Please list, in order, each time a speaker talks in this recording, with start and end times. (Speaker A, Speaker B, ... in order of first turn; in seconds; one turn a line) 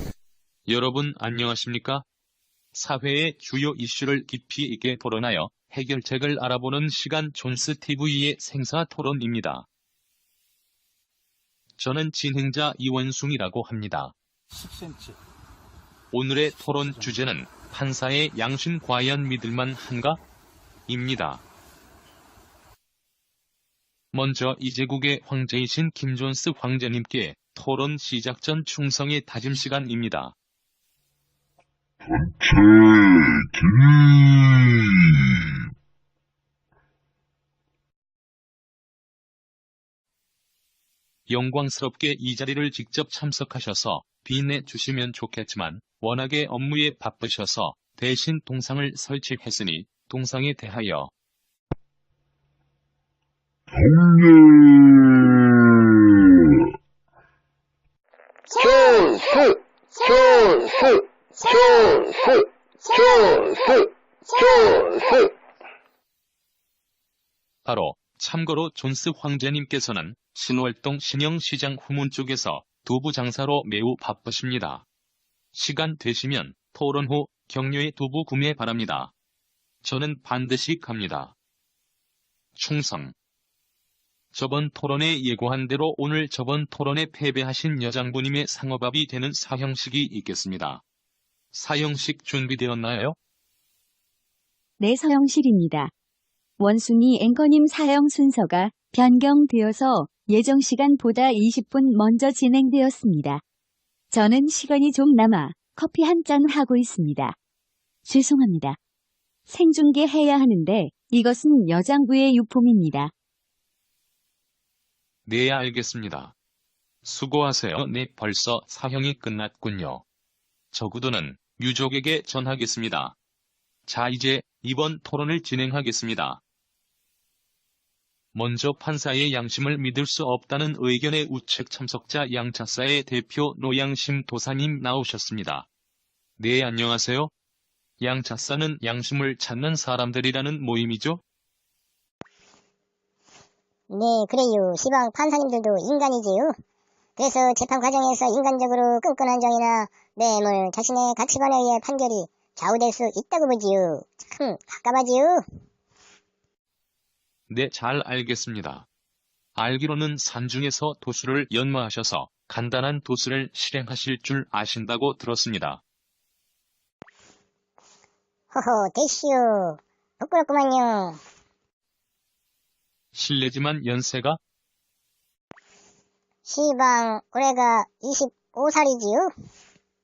Speaker A: 0.7-2.0
Speaker A: 2.7-9.7
Speaker A: 11.8-14.1
Speaker A: 16.1-20.2
Speaker A: 20.9-21.4
Speaker A: 24.1-30.4
Speaker B: 32.1-35.4
Speaker A: 41.3-51.1
Speaker B: 53.8-56.4
Speaker C: 58.5-65.2
Speaker A: 67.7-74.9
Speaker A: 75.5-79.1
Speaker A: 79.8-81.3
Speaker A: 82.5-83.2
Speaker A: 84.3-90.8
Speaker A: 91.5-93.2
Speaker D: 94.8-95.9
Speaker D: 96.6-103.4
Speaker D: 104.1-107.4
Speaker D: 108.0-108.8
Speaker D: 109.5-113.1
Speaker A: 115.3-116.3
Speaker A: 117.0-120.0
Speaker A: 120.7-123.2
Speaker A: 123.9-126.4
Speaker A: 128.3-135.7
Speaker A: 136.4-137.3
Speaker A: 138.0-141.2
Speaker C: 143.9-146.5
Speaker C: 147.2-155.4
Speaker A: 157.5-158.9
Speaker A: 159.6-165.8
Speaker C: 168.5-171.2
Speaker A: 173.1-174.4
Speaker C: 176.5-179.3